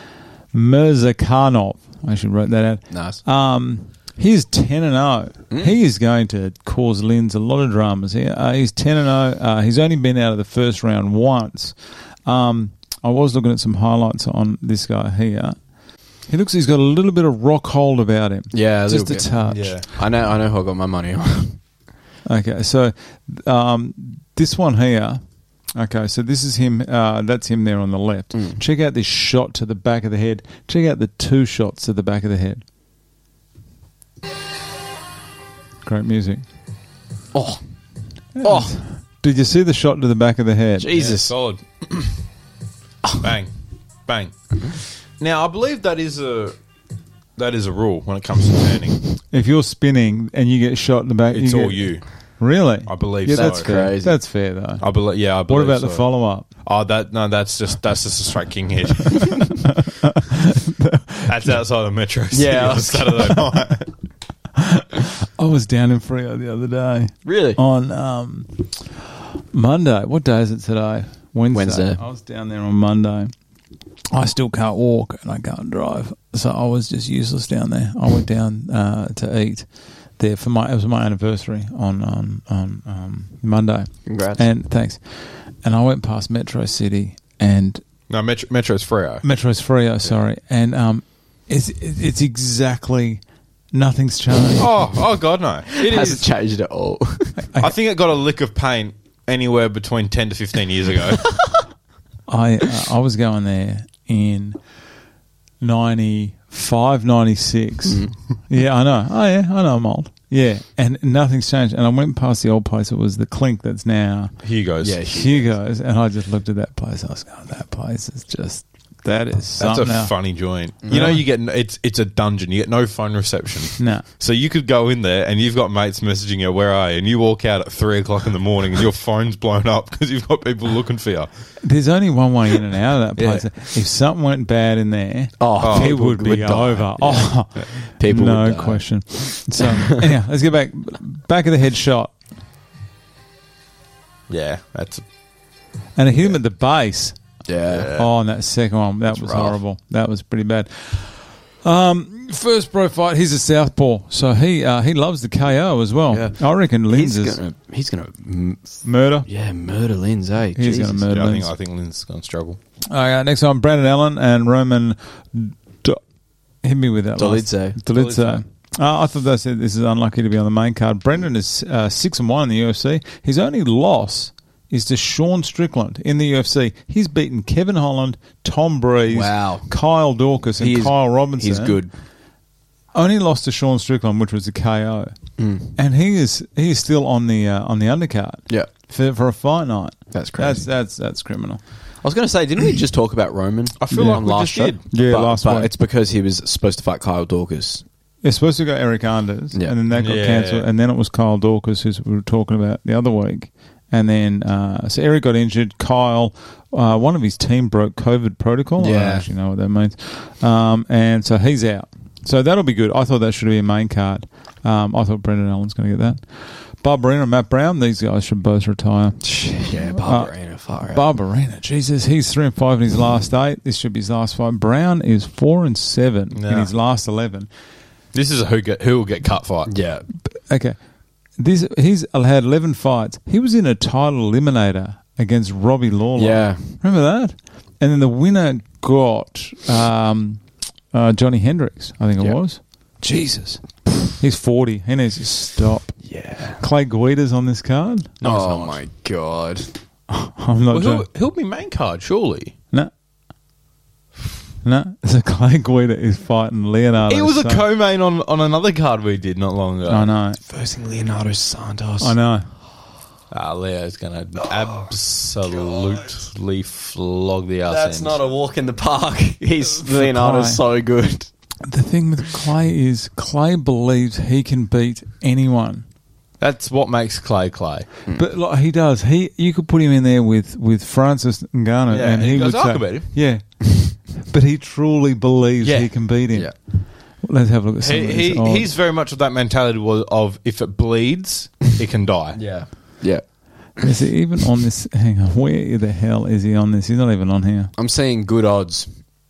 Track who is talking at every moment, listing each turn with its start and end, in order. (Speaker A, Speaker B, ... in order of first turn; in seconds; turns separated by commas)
Speaker A: 0.5-15.6, Speaker B: 2.9-3.2, Speaker A: 16.3-19.8, Speaker B: 18.5-19.3, Speaker C: 19.4-19.9, Speaker B: 19.9-21.6, Speaker A: 22.2-25.2, Speaker A: 25.7-32.6, Speaker A: 35.8-36.4, Speaker B: 37.3-37.6, Speaker A: 38.4-41.0, Speaker B: 38.4-38.7, Speaker B: 40.8-41.3, Speaker C: 40.9-42.2, Speaker C: 43.2-43.5, Speaker C: 44.1-46.5, Speaker C: 47.4-49.0, Speaker A: 49.3-56.5, Speaker C: 51.3-52.0, Speaker C: 52.9-53.7, Speaker B: 53.3-54.2, Speaker C: 54.8-59.6, Speaker A: 59.1-61.3, Speaker C: 61.2-63.9, Speaker B: 62.3-63.4, Speaker A: 64.6-73.3, Speaker B: 67.2-67.6, Speaker B: 71.5-72.0, Speaker A: 74.1-87.8, Speaker B: 84.0-84.4, Speaker C: 88.1-89.2, Speaker A: 89.2-93.2, Speaker A: 93.7-94.9, Speaker C: 94.6-96.2, Speaker B: 95.7-97.5, Speaker A: 97.4-97.7, Speaker C: 97.6-101.3, Speaker B: 101.2-101.6, Speaker A: 102.3-104.6, Speaker A: 105.6-114.4, Speaker B: 107.9-108.1, Speaker C: 114.4-115.0, Speaker B: 114.8-115.5, Speaker A: 115.0-120.1, Speaker C: 119.6-131.3, Speaker A: 120.9-121.2, Speaker A: 123.8-124.0, Speaker A: 131.6-142.1, Speaker C: 133.2-133.5, Speaker B: 135.4-140.0, Speaker C: 135.6-136.0, Speaker C: 144.3-145.0, Speaker A: 145.9-147.2, Speaker B: 147.5-147.9, Speaker C: 147.7-148.1, Speaker A: 147.9-157.4, Speaker B: 149.1-149.6, Speaker B: 156.1-158.7, Speaker A: 158.8-159.3, Speaker B: 159.2-161.1, Speaker A: 160.6-161.5, Speaker C: 161.1-162.6, Speaker A: 162.9-166.0, Speaker A: 166.6-181.8, Speaker B: 167.2-167.8, Speaker C: 167.9-168.4, Speaker B: 179.1-179.7, Speaker B: 180.6-181.9, Speaker A: 182.9-185.1, Speaker B: 185.4-185.7, Speaker A: 185.7-191.6, Speaker B: 190.1-190.6, Speaker B: 192.0-197.8, Speaker C: 193.8-194.9, Speaker A: 193.9-194.2, Speaker A: 194.9-195.7, Speaker A: 198.2-227.5, Speaker C: 199.9-200.7, Speaker B: 208.8-209.2, Speaker B: 219.2-221.1, Speaker C: 226.3-226.7, Speaker C: 228.1-229.7, Speaker B: 229.7-230.1, Speaker A: 230.3-230.8, Speaker A: 231.4-246.0, Speaker B: 236.2-236.7, Speaker B: 246.0-246.6, Speaker A: 246.6-248.1, Speaker C: 248.2-248.8, Speaker B: 248.2-249.7, Speaker A: 250.1-251.1, Speaker C: 250.7-252.5, Speaker A: 254.6-257.7, Speaker C: 257.1-260.1, Speaker A: 259.9-260.4, Speaker B: 260.4-262.1, Speaker A: 262.0-262.5, Speaker C: 263.3-268.2, Speaker B: 267.6-271.3, Speaker A: 269.8-270.6, Speaker A: 271.6-275.9, Speaker C: 276.4-277.9, Speaker A: 278.1-286.5, Speaker C: 281.9-283.1, Speaker C: 285.6-286.0, Speaker A: 287.2-288.7, Speaker C: 287.8-292.4, Speaker B: 292.3-293.2, Speaker A: 293.8-297.7, Speaker B: 297.8-298.9